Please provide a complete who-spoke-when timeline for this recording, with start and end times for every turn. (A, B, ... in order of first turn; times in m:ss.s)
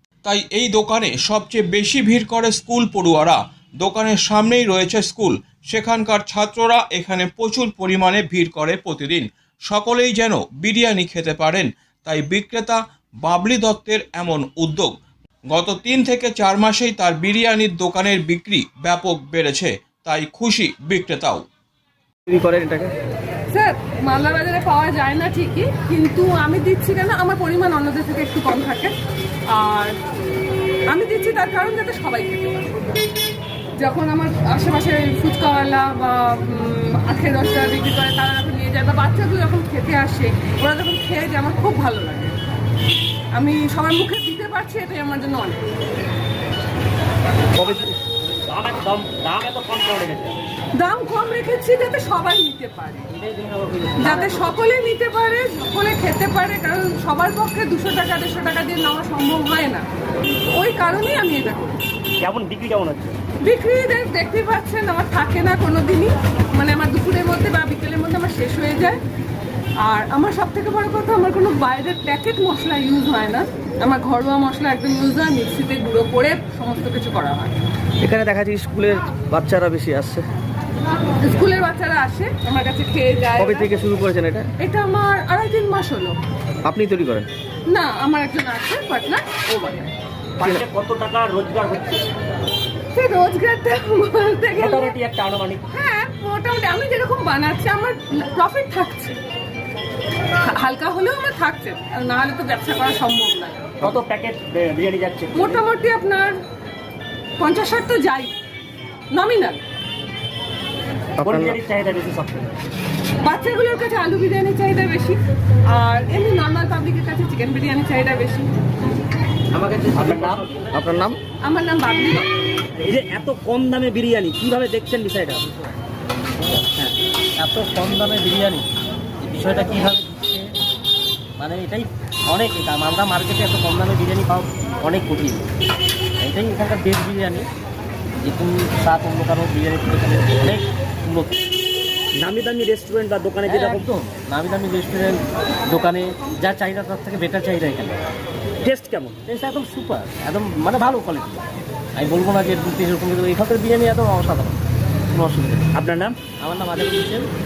0:00.2-0:14.9 A
0:15.5-0:21.4 A
0:22.3-0:22.9 B
0:23.5-0:28.9 C
0:29.5-0:29.9 C
0:30.9-0:33.0 C
0:33.8-0:42.3 C
0:43.3-0:45.6 C
0:47.6-0:50.4 D
0:50.8-0:53.1 C
0:53.2-0:54.2 E
0:54.0-0:59.8 C
1:00.5-1:01.8 C
1:02.2-1:03.2 D
1:03.4-1:09.0 C
1:09.8-1:17.6 C
1:18.0-1:20.3 B
1:21.2-1:23.8 C
1:23.4-1:24.5 B
1:24.6-1:26.2 C
1:26.7-1:27.3 B
1:27.7-1:29.4 C
1:29.5-1:29.9 D
1:30.4-1:32.1 D
1:33.0-1:35.0 C
1:34.6-1:35.6 D
1:35.7-1:39.2 C
1:40.5-1:43.7 C
1:43.8-1:45.6 D
1:45.3-1:46.3 C
1:47.4-1:48.3 C
1:49.1-1:49.6 C
1:51.2-1:51.6 B
1:51.2-1:52.5 D
1:53.2-1:58.5 C
1:59.9-2:00.6 D
2:00.7-2:01.2 B
2:01.4-2:02.3 C
2:02.8-2:05.5 D
2:06.7-2:08.7 E
2:09.2-2:10.5 E
2:11.4-2:15.4 E
2:16.2-2:17.5 E
2:18.2-2:21.3 E
2:22.1-2:23.9 D
2:23.4-2:28.0 E
2:28.6-2:29.2 D
2:29.3-2:31.4 E
2:32.0-2:34.6 E
2:35.1-2:35.6 E
2:35.7-2:36.2 D
2:36.4-2:37.3 E